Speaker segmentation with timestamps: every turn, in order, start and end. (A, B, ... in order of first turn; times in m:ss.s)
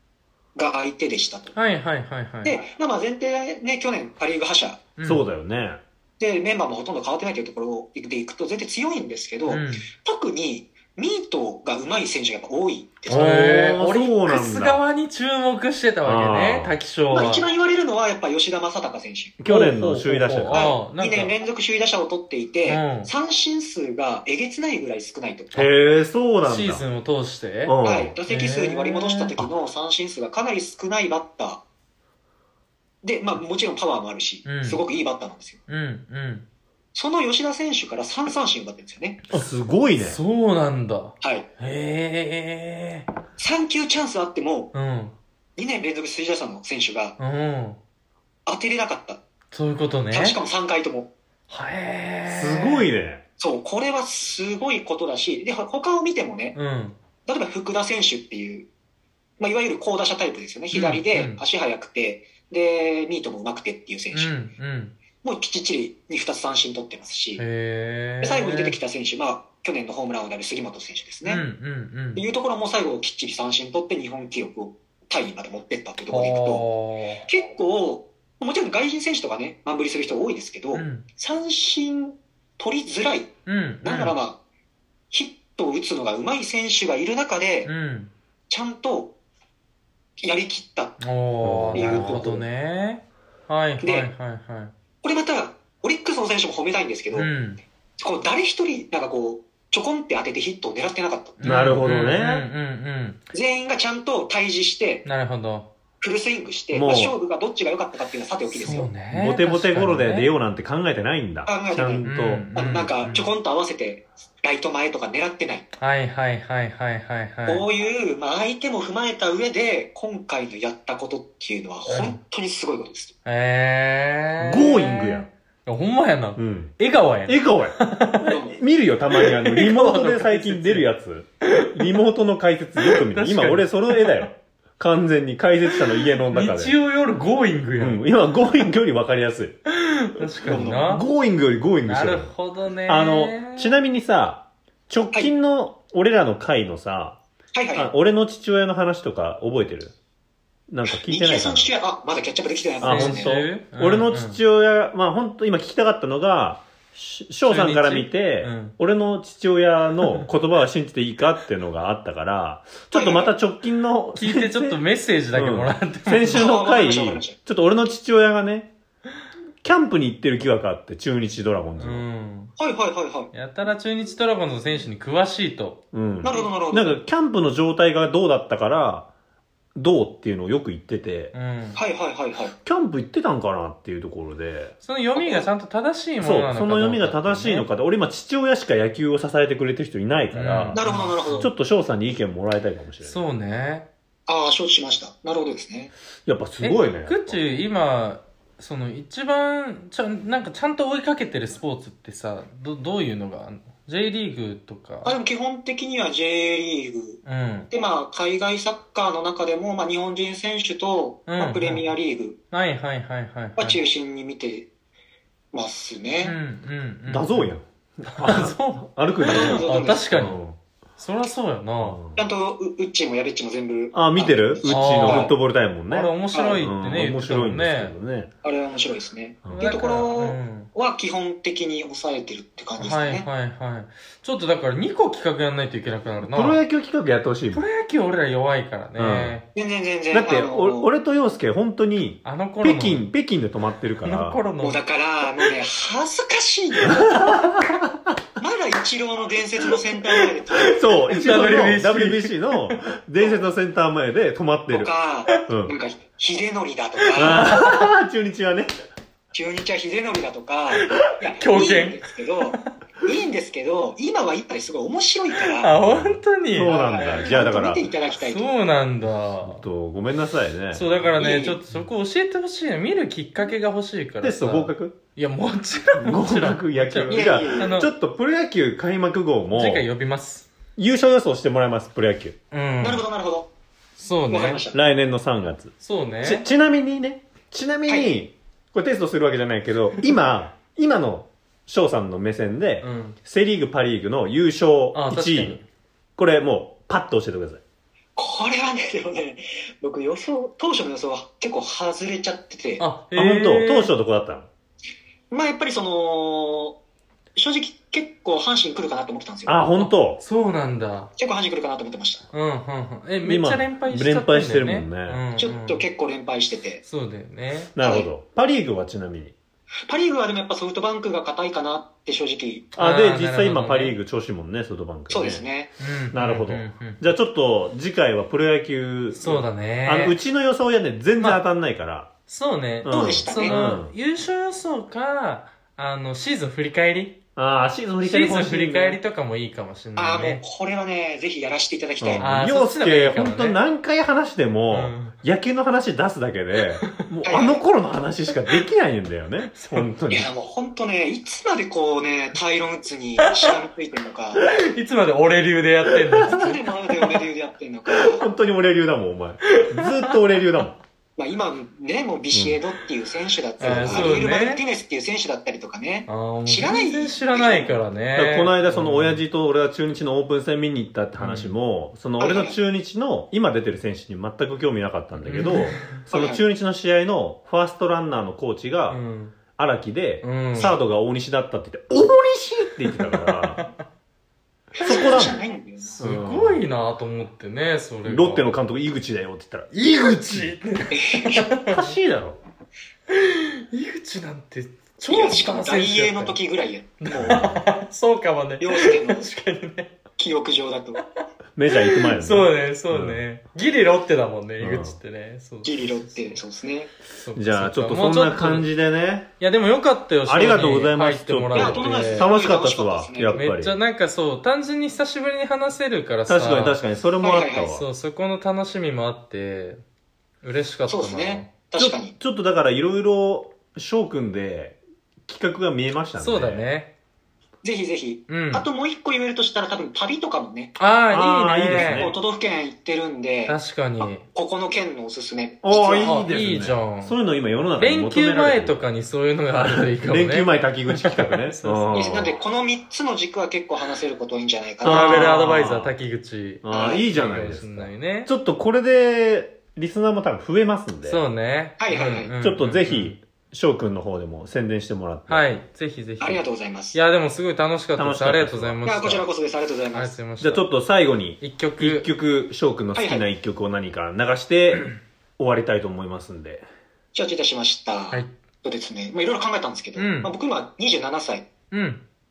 0:00.5-0:01.5 A
0:01.5-0:02.6 B
0:02.4-0:04.8 A
0:05.0-0:05.2 B
0:05.0-0:05.8 C
0:06.2-0:13.2 A
0:09.5-0:09.9 B
0:13.1-0:14.8 C
0:13.1-0:17.4 B
0:16.0-0:16.8 C
0:17.1-0:19.4 A
0:19.4-0:20.8 C
0:19.5-0:21.3 B
0:20.5-0:25.7 A
0:22.6-0:23.1 B
0:25.5-0:26.8 C
0:26.4-0:29.4 B
0:27.6-0:28.1 C
0:27.8-0:31.6 A
0:33.0-0:35.6 A
0:34.4-0:34.8 B
0:35.7-0:36.4 B
0:36.9-0:39.2 A
0:39.3-0:40.2 C
0:40.0-0:43.1 B
0:41.2-0:41.5 A
0:43.4-0:44.7 A
0:44.7-0:45.2 B
0:45.6-0:47.2 A
0:47.2-0:47.8 B
0:48.4-0:49.2 A
0:49.5-0:50.4 B
0:50.1-0:51.1 A
0:51.5-0:52.9 B
0:52.3-0:53.2 C
0:53.4-0:56.6 A
0:56.5-0:56.9 B
0:57.2-0:58.7 A
0:59.4-1:04.4 A
1:00.7-1:01.4 B
1:04.1-1:04.9 B
1:05.2-1:07.4 A
1:07.4-1:08.8 B
1:08.2-1:11.4 A
1:11.2-1:12.2 B
1:12.1-1:16.7 A
1:16.1-1:17.2 B
1:17.2-1:24.4 A
1:20.7-1:21.0 B
1:23.4-1:24.2 B
1:25.1-1:27.7 A
1:27.6-1:28.1 B
1:28.5-1:29.2 A
1:30.2-1:31.0 A
1:31.0-1:34.7 B
1:31.4-1:32.3 C
1:31.7-1:32.4 A
1:33.8-1:34.1 A
1:35.0-1:37.3 A
1:37.1-1:37.6 B
1:38.0-1:41.7 A
1:41.4-1:43.2 B
1:41.4-1:42.5 C
1:43.3-1:45.0 A
1:45.0-1:45.7 B
1:46.0-1:48.9 A
1:46.7-1:47.2 C
1:48.5-1:50.3 B
1:49.1-1:52.5 C
1:51.4-1:55.7 A
1:52.0-1:53.3 B
1:55.8-1:57.7 B
1:57.5-2:03.1 A
2:01.9-2:02.2 B
2:03.2-2:08.3 B
2:04.4-2:05.3 C
2:06.4-2:07.8 C
2:08.2-2:08.6 A
2:08.5-2:16.8 C
2:09.1-2:10.9 B
2:11.4-2:11.9 B
2:12.8-2:14.3 B
2:16.3-2:18.0 B
2:17.8-2:19.6 C
2:19.7-2:21.0 B
2:20.4-2:22.3 C
2:20.5-2:20.8 A
2:21.9-2:23.8 B
2:22.8-2:27.2 C
2:27.5-2:27.9 A
2:27.7-2:29.9 C
2:30.7-2:31.7 C
2:30.9-2:33.4 A
2:32.8-2:48.7 C
2:32.8-2:34.4 B
2:37.5-2:38.8 B
2:42.9-2:43.3 A
2:44.2-2:46.5 B
2:46.3-2:47.4 A
2:49.6-2:52.0 C
2:51.8-2:52.5 B
2:52.6-2:53.3 A
2:53.3-2:56.5 B
2:55.9-2:59.1 C
2:56.2-2:57.0 A
2:59.7-3:01.3 C
3:01.3-3:01.8 B
3:01.8-3:02.5 A
3:02.6-3:04.7 C
3:04.8-3:07.7 B
3:05.2-3:05.5 A
3:06.2-3:13.2 C
3:10.3-3:11.5 B
3:10.7-3:11.5 A
3:13.0-3:13.9 B
3:14.3-3:15.9 A
3:16.2-3:17.4 C
3:16.6-3:25.1 B
3:25.0-3:32.4 A
3:27.2-3:27.7 B
3:31.3-3:31.9 B
3:32.5-3:33.8 B
3:33.6-3:34.7 A
3:35.5-3:36.4 A
3:36.2-3:37.6 B
3:37.1-3:40.6 C
3:38.1-3:40.4 B
3:39.3-3:40.2 A
3:41.0-3:42.0 B
3:41.8-3:42.2 C
3:42.2-3:45.3 A
3:43.9-3:48.3 C
3:44.7-3:45.3 B
3:45.9-3:47.9 B
3:46.3-3:46.6 A
3:48.4-3:53.3 A
3:49.4-3:49.8 C
3:49.5-3:50.7 B
3:52.8-3:56.6 B
3:56.2-3:57.6 C
3:57.5-3:59.4 B
3:59.0-3:59.4 C
3:59.5-4:00.9 A
4:00.1-4:04.4 C
4:02.2-4:03.0 B
4:04.0-4:04.8 B
4:04.6-4:07.1 A
4:06.8-4:08.1 C
4:06.9-4:07.5 B
4:08.4-4:10.8 A
4:10.6-4:14.9 C
4:10.7-4:12.8 B
4:14.7-4:17.6 A
4:15.4-4:15.7 C
4:17.0-4:17.9 B
4:17.2-4:18.7 C
4:19.3-4:25.7 A
4:20.7-4:22.6 B
4:25.4-4:27.3 B
4:25.7-4:27.9 C
4:26.6-4:28.6 A
4:28.1-4:29.6 B
4:29.4-4:31.1 C
4:30.7-4:37.9 B
4:31.2-4:31.6 A
4:34.2-4:35.0 C
4:35.9-4:39.8 C
4:37.1-4:37.8 A
4:39.5-4:40.5 B
4:40.8-4:42.4 C
4:42.5-4:43.0 B
4:42.8-4:43.5 A
4:44.0-4:44.6 B
4:44.3-4:44.8 A
4:44.7-4:55.6 C
4:45.8-4:46.4 B
4:47.9-4:48.1 A
4:52.8-4:53.2 B
4:54.9-4:55.6 B
4:56.2-4:57.6 C
4:58.2-5:02.8 A
5:02.8-5:03.9 B
5:03.1-5:04.5 C
5:05.3-5:06.8 A
5:07.3-5:09.6 A
5:09.4-5:10.2 C
5:09.8-5:11.1 B
5:11.2-5:12.2 A
5:12.3-5:15.8 B
5:13.2-5:15.2 C
5:15.4-5:16.8 A
5:16.8-5:17.7 B
5:17.8-5:19.3 C
5:17.8-5:18.1 A
5:19.9-5:22.7 A
5:22.8-5:24.0 B
5:22.8-5:25.4 C
5:25.1-5:25.7 A
5:25.8-5:27.1 B
5:26.1-5:32.1 C
5:29.1-5:30.2 B
5:32.3-5:37.2 B
5:32.8-5:33.9 C
5:32.9-5:33.6 A
5:37.4-5:39.0 C
5:38.0-5:40.4 B
5:40.0-5:42.3 A
5:42.0-5:50.3 C
5:42.2-5:43.6 B
5:44.7-5:45.1 B
5:47.2-5:47.6 A
5:49.5-5:49.9 B
5:50.1-5:54.4 A
5:53.2-5:53.5 B
5:54.4-5:56.6 B
5:56.2-5:58.3 A
5:58.0-6:00.8 C
5:59.5-6:00.1 B
6:01.2-6:07.8 A
6:03.6-6:04.6 B
6:03.6-6:04.2 C
6:06.1-6:09.2 B
6:08.1-6:19.0 C
6:11.2-6:11.5 B
6:12.2-6:12.6 A
6:15.2-6:16.0 B
6:16.1-6:16.4 A
6:18.9-6:19.4 B
6:19.5-6:23.6 C
6:20.2-6:20.7 B
6:23.0-6:23.8 B
6:24.8-6:26.0 A
6:24.8-6:25.4 C
6:25.8-6:28.5 B
6:26.0-6:26.6 C
6:28.0-6:30.5 C
6:29.7-6:31.9 B
6:30.9-6:31.5 A
6:31.6-6:32.4 C
6:33.1-6:36.4 B
6:35.1-6:37.4 A
6:37.0-6:40.0 B
6:37.1-6:37.6 C
6:38.6-6:39.3 A
6:40.2-6:41.0 A
6:41.6-6:43.2 C
6:41.7-6:46.4 B
6:44.6-6:45.0 C
6:45.6-6:46.9 A
6:47.1-6:48.7 B
6:47.3-6:49.3 C
6:49.4-6:52.3 B
6:50.3-6:53.8 C
6:51.5-6:53.3 A
6:53.3-6:56.8 B
6:56.3-6:57.8 C
6:57.2-6:57.8 A
6:57.7-6:59.8 B
7:00.4-7:01.5 B
7:00.9-7:02.1 A
7:01.8-7:06.6 C
7:06.2-7:06.9 B
7:07.6-7:10.8 A
7:08.3-7:08.6 B
7:10.8-7:12.1 B
7:11.1-7:12.1 C
7:11.7-7:16.2 A
7:13.5-7:14.2 B
7:15.6-7:18.8 C
7:16.0-7:17.1 B
7:17.8-7:22.2 B
7:19.5-7:22.3 C
7:21.9-7:25.4 A
7:24.8-7:28.3 B
7:24.8-7:25.9 C
7:26.6-7:31.2 C
7:26.7-7:27.0 A
7:31.0-7:33.2 B
7:31.8-7:32.3 A
7:32.4-7:35.5 C
7:35.3-7:39.2 B
7:36.2-7:37.0 A
7:38.0-7:38.9 C
7:38.8-7:40.2 A
7:39.9-7:40.7 B
7:40.4-7:46.6 C
7:41.4-7:42.1 B
7:42.9-7:43.2 A
7:47.1-7:51.5 A
7:50.0-7:50.3 B
7:51.7-7:52.0 B